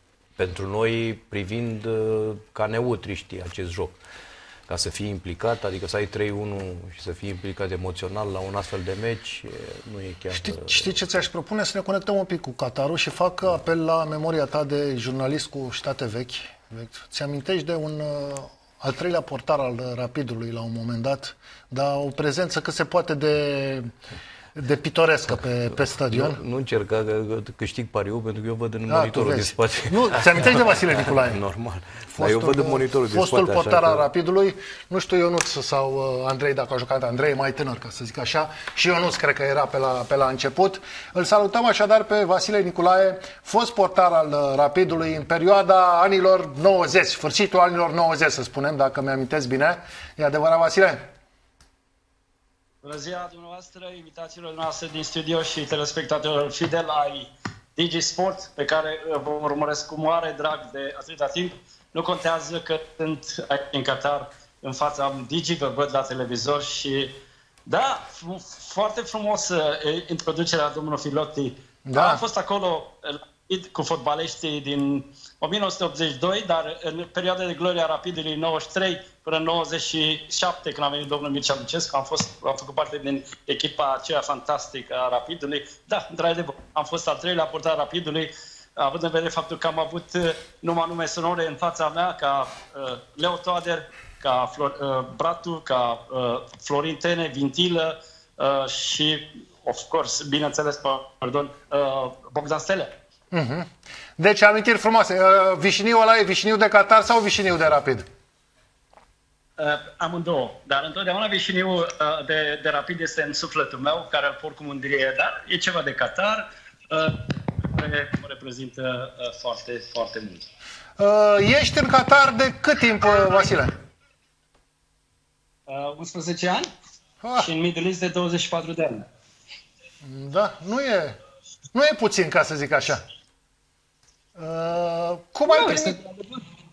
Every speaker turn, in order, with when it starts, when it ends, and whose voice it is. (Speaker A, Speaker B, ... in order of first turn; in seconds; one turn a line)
Speaker A: 0.4-4.0
Speaker A: 4.7-11.0
Speaker B: 10.3-23.9
Speaker B: 24.6-26.4
Speaker A: 25.3-34.1
Speaker B: 28.9-31.4
Speaker B: 32.1-51.1
Speaker C: 52.8-67.1
Speaker C: 67.7-102.9
Speaker B: 71.8-72.2
Speaker B: 103.3-108.0
Speaker C: 109.6-120.5
Speaker B: 121.0-123.7
Speaker C: 125.7-126.7
Speaker B: 127.2-127.5
Speaker C: 127.4-129.0
Speaker B: 130.0-131.2
Speaker B: 131.7-133.0
Speaker B: 134.4-136.0
Speaker C: 135.5-136.4